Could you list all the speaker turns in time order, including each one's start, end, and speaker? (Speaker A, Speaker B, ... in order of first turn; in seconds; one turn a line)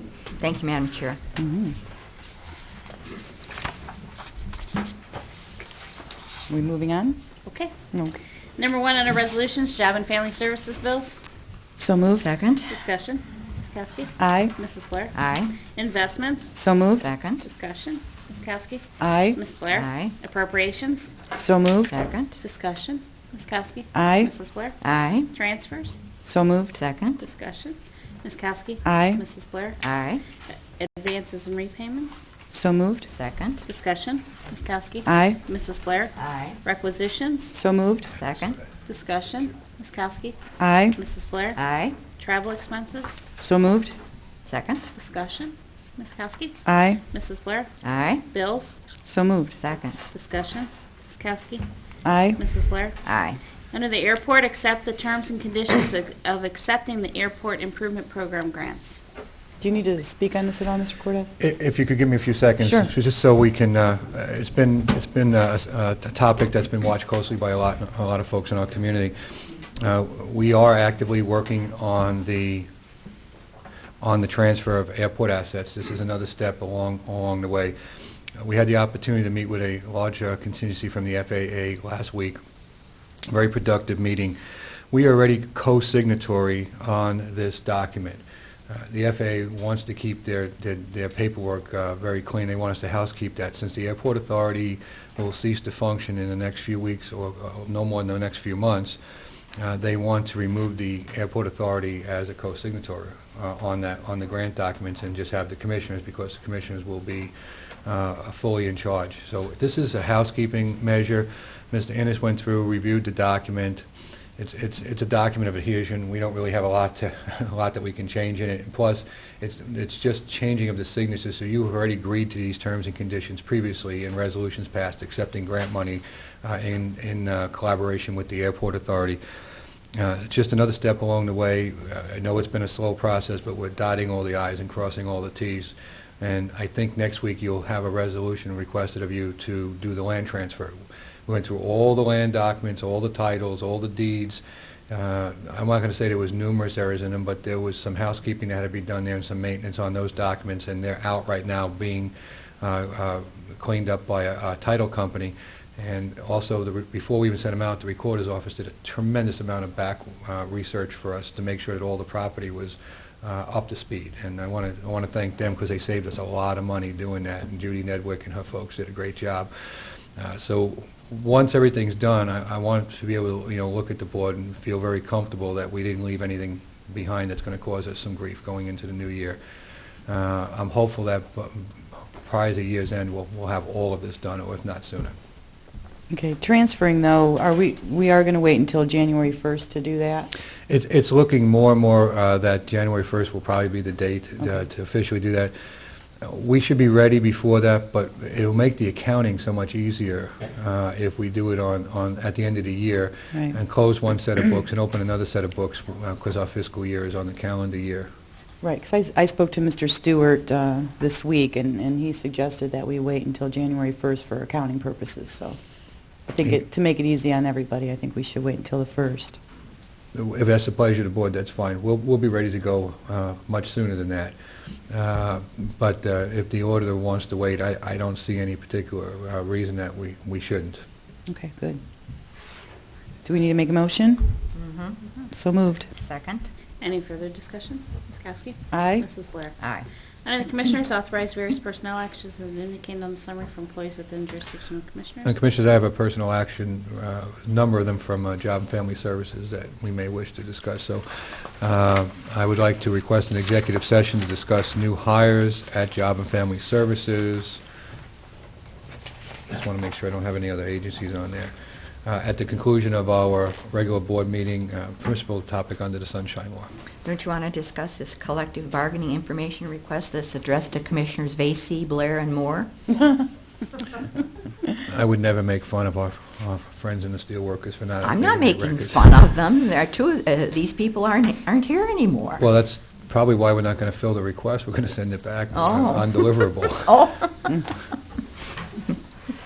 Speaker A: 0.4-1.2
Speaker B: 1.4-1.8
Speaker B: 6.5-7.2
Speaker C: 7.5-7.7
Speaker B: 7.9-8.2
Speaker C: 8.6-11.2
Speaker B: 11.8-12.2
Speaker A: 12.2-12.8
Speaker C: 12.7-16.6
Speaker B: 14.2-14.6
Speaker A: 15.1-15.6
Speaker B: 16.5-17.1
Speaker A: 17.0-17.4
Speaker C: 17.4-21.1
Speaker B: 19.0-19.4
Speaker A: 19.7-20.1
Speaker B: 21.3-21.9
Speaker A: 21.9-22.4
Speaker C: 22.4-24.8
Speaker B: 23.9-24.3
Speaker A: 24.8-25.3
Speaker C: 25.3-26.0
Speaker B: 26.2-26.8
Speaker A: 26.7-27.2
Speaker C: 27.2-29.8
Speaker B: 28.8-29.2
Speaker A: 29.8-30.2
Speaker C: 30.8-32.3
Speaker B: 32.5-33.1
Speaker A: 33.1-33.6
Speaker C: 33.6-37.5
Speaker B: 35.0-35.4
Speaker A: 36.2-36.6
Speaker B: 37.5-38.1
Speaker A: 38.1-38.6
Speaker C: 38.9-40.4
Speaker B: 40.6-41.0
Speaker C: 40.9-41.6
Speaker A: 41.5-42.0
Speaker C: 42.2-43.2
Speaker B: 43.4-44.0
Speaker A: 44.5-44.9
Speaker C: 44.9-46.6
Speaker B: 46.7-47.0
Speaker C: 47.1-47.7
Speaker A: 47.8-48.2
Speaker C: 48.3-48.8
Speaker B: 49.0-49.5
Speaker A: 49.5-50.1
Speaker C: 50.1-51.7
Speaker B: 52.0-52.4
Speaker C: 52.4-53.0
Speaker A: 53.0-53.4
Speaker C: 53.7-59.0
Speaker B: 59.6-61.3
Speaker D: 61.4-72.7
Speaker B: 62.6-62.9
Speaker D: 74.0-77.7
Speaker D: 78.4-82.4
Speaker D: 83.3-84.4
Speaker D: 84.9-99.0
Speaker D: 99.6-107.3
Speaker D: 107.8-113.8
Speaker D: 114.4-129.2
Speaker D: 129.9-169.5
Speaker D: 170.2-179.4
Speaker D: 180.1-185.1
Speaker B: 186.1-190.3
Speaker D: 190.7-195.5
Speaker D: 196.2-208.1
Speaker B: 208.6-215.6
Speaker B: 216.3-219.4
Speaker D: 220.1-224.3
Speaker D: 224.9-230.8
Speaker B: 231.3-231.8
Speaker B: 233.2-234.4
Speaker A: 234.5-235.0
Speaker B: 235.3-235.9
Speaker A: 235.9-236.5
Speaker C: 236.8-239.6
Speaker B: 238.7-239.1
Speaker A: 239.6-239.9
Speaker C: 240.2-245.3
Speaker D: 245.2-257.6
Speaker D: 259.5-261.5
Speaker D: 262.0-266.7
Speaker A: 267.0-272.7
Speaker D: 274.8-279.2
Speaker A: 278.0-282.5
Speaker D: 282.4-287.1
Speaker A: 285.5-287.6